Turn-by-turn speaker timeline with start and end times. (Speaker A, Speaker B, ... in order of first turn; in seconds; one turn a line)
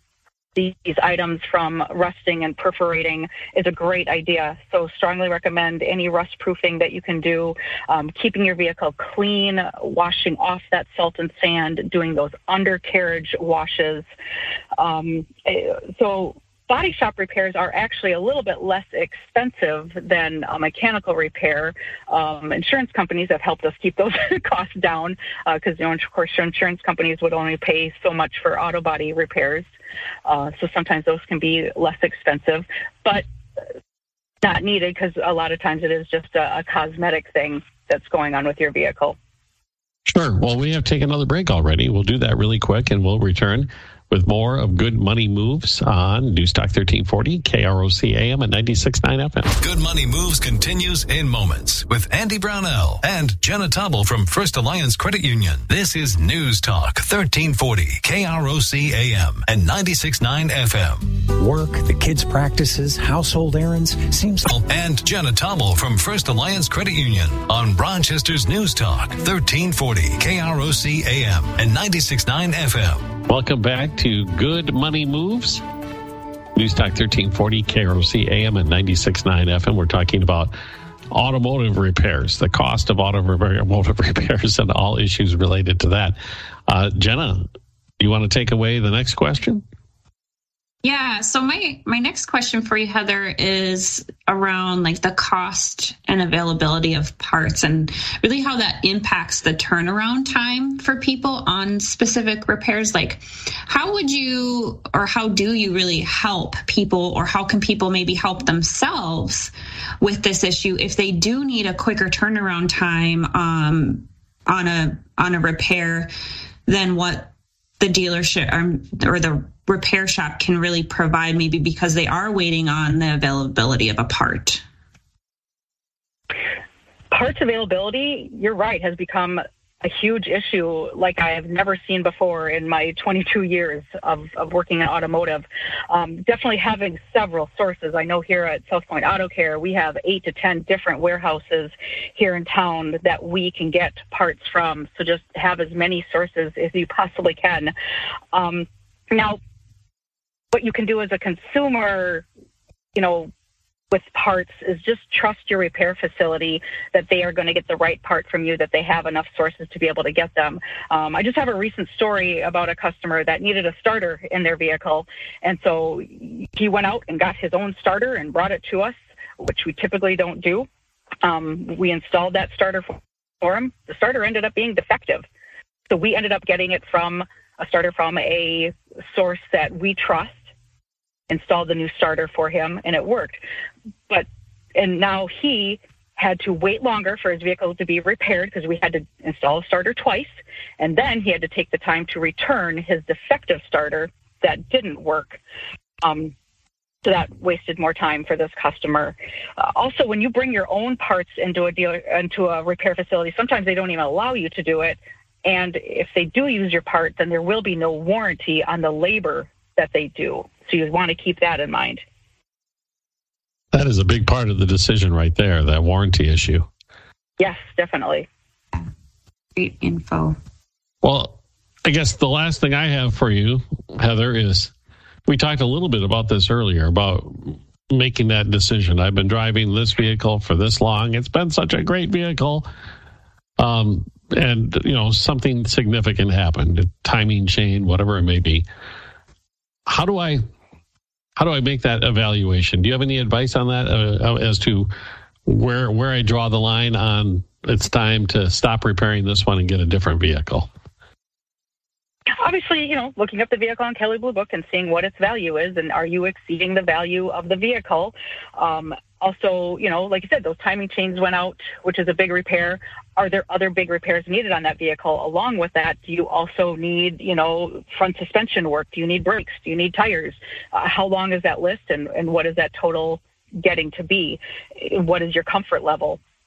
Speaker A: 0.6-14.1
Speaker A: 14.8-29.7
Speaker A: 30.2-33.2
Speaker A: 34.4-39.2
Speaker B: 40.1-49.5
Speaker C: 49.6-61.2
Speaker D: 61.4-64.5
Speaker C: 64.4-73.1
Speaker B: 73.3-75.6
Speaker B: 76.5-80.5
Speaker B: 81.1-87.5
Speaker B: 88.0-89.6
Speaker E: 90.8-116.1
Speaker E: 116.7-124.6
Speaker A: 127.1-147.7
Speaker A: 148.3-149.4
Speaker A: 150.5-152.2
Speaker A: 152.9-153.3
Speaker A: 153.9-170.7
Speaker A: 171.2-175.3
Speaker A: 175.9-180.4
Speaker A: 181.3-183.4
Speaker A: 184.1-195.4
Speaker A: 196.0-196.3
Speaker A: 197.0-212.0
Speaker B: 213.7-216.7
Speaker A: 217.4-218.3
Speaker E: 219.6-220.4
Speaker B: 221.0-224.7
Speaker B: 225.2-232.7
Speaker B: 233.6-238.7
Speaker B: 239.9-240.4
Speaker B: 241.4-244.9
Speaker B: 245.4-250.7
Speaker A: 252.4-276.2